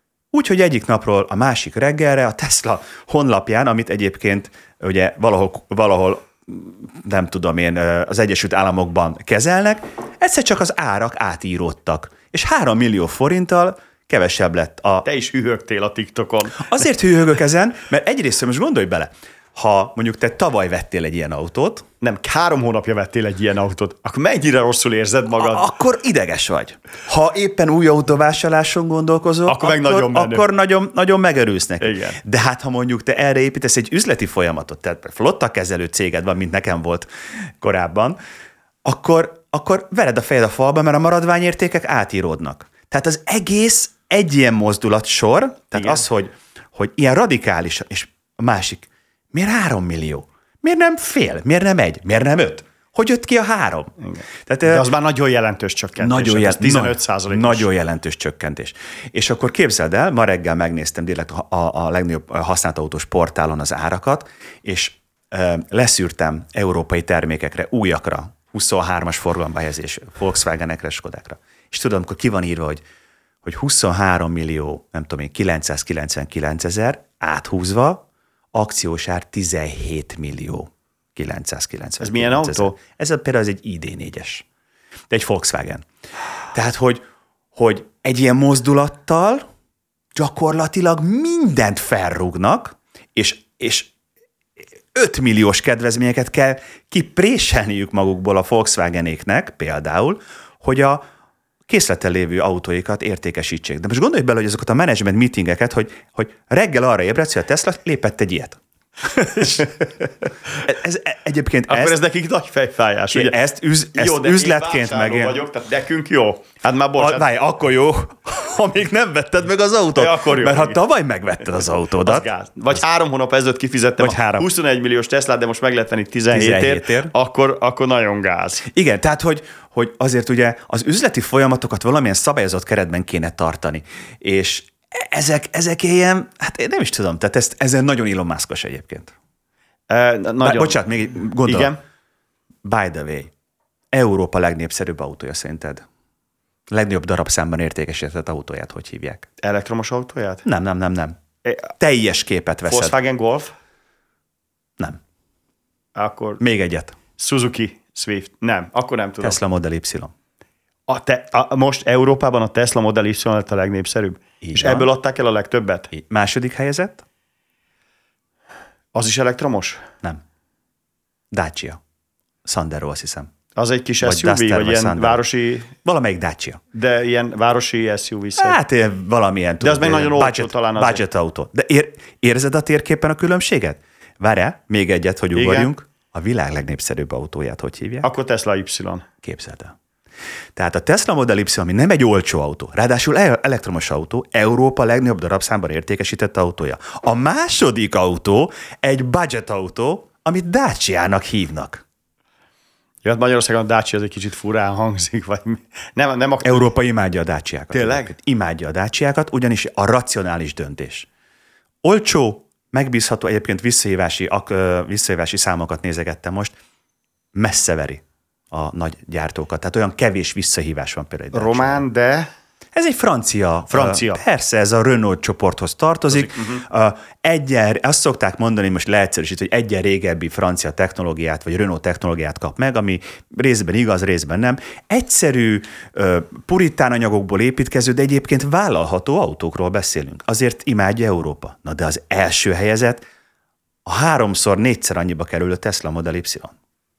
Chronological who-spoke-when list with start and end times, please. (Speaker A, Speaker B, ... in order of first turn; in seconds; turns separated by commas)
Speaker A: 0.3-15.1, Speaker B: 15.1-16.9, Speaker A: 16.6-21.9, Speaker B: 22.0-25.7, Speaker A: 25.4-37.1, Speaker B: 29.5-30.5, Speaker B: 31.8-32.2, Speaker A: 37.6-38.2, Speaker A: 38.9-53.9, Speaker B: 45.8-46.0, Speaker B: 54.0-57.7, Speaker A: 54.5-54.8, Speaker A: 56.0-72.8, Speaker A: 73.4-84.5, Speaker B: 82.0-82.8, Speaker A: 85.1-85.8, Speaker A: 86.5-87.0, Speaker A: 87.5-89.4, Speaker A: 90.2-93.9, Speaker A: 94.9-101.0, Speaker A: 101.7-109.9, Speaker A: 110.6-112.0, Speaker B: 111.7-113.4, Speaker A: 113.1-115.4, Speaker B: 114.0-117.3, Speaker A: 117.0-122.3, Speaker B: 120.0-120.8, Speaker B: 122.0-128.7, Speaker A: 124.0-124.5, Speaker A: 126.3-127.1, Speaker A: 128.7-139.1, Speaker B: 139.9-140.8, Speaker A: 140.4-141.7, Speaker B: 141.4-141.8, Speaker A: 142.7-143.3, Speaker A: 143.9-145.8, Speaker A: 146.7-149.3, Speaker B: 149.4-150.5, Speaker A: 150.5-151.2, Speaker B: 151.4-151.7, Speaker A: 151.8-152.9, Speaker B: 152.7-153.5, Speaker B: 156.0-156.4, Speaker A: 156.4-157.0, Speaker B: 157.2-159.4, Speaker A: 159.2-160.1, Speaker B: 160.9-165.9, Speaker A: 164.4-164.9, Speaker A: 165.9-167.1, Speaker B: 168.9-169.8, Speaker A: 171.3-171.8, Speaker A: 172.5-173.3, Speaker B: 173.6-175.7, Speaker A: 174.0-175.2, Speaker A: 175.8-176.6, Speaker B: 176.7-178.6, Speaker A: 178.4-188.1, Speaker B: 179.6-181.0, Speaker B: 185.3-185.7, Speaker B: 188.0-189.0, Speaker A: 189.2-189.7, Speaker A: 190.6-201.8, Speaker B: 203.0-206.7, Speaker A: 206.4-211.1, Speaker B: 207.7-208.1, Speaker A: 211.8-216.5, Speaker A: 217.3-221.8, Speaker B: 221.3-222.3, Speaker A: 222.8-243.0, Speaker B: 223.7-224.2, Speaker B: 226.1-226.6, Speaker A: 243.9-246.5